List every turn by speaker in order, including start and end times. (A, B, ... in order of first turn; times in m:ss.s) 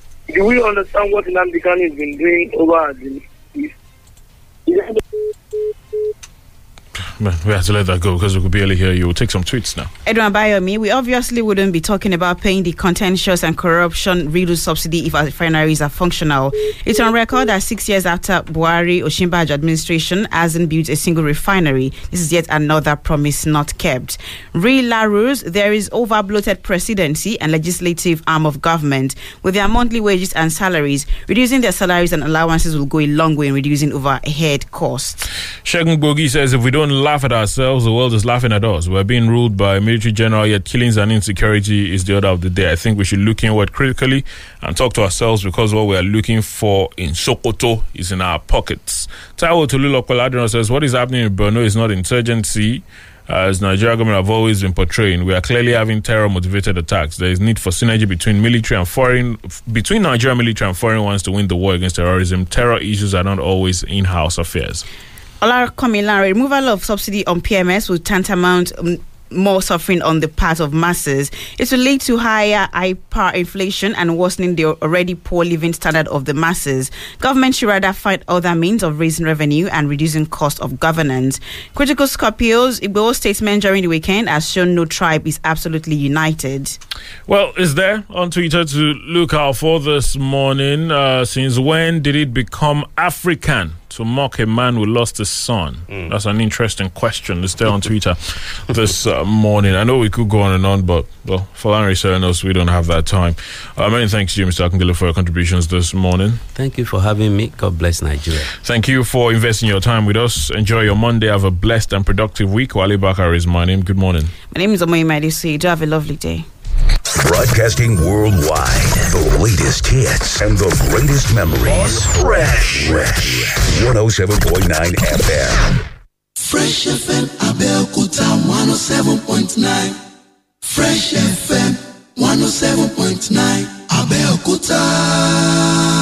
0:00.3-0:03.7 A
0:04.7-0:05.0 A
0:07.2-0:09.9 B
0:10.1-0:35.2 C
0:35.6-1:04.8 B
1:05.4-1:26.8 C
1:27.3-1:46.4 B
1:46.6-1:48.5 D
1:48.6-1:54.3 B
1:54.5-1:56.5 C
1:57.1-2:05.7 E
2:06.5-2:09.9 F
2:10.7-2:13.7 F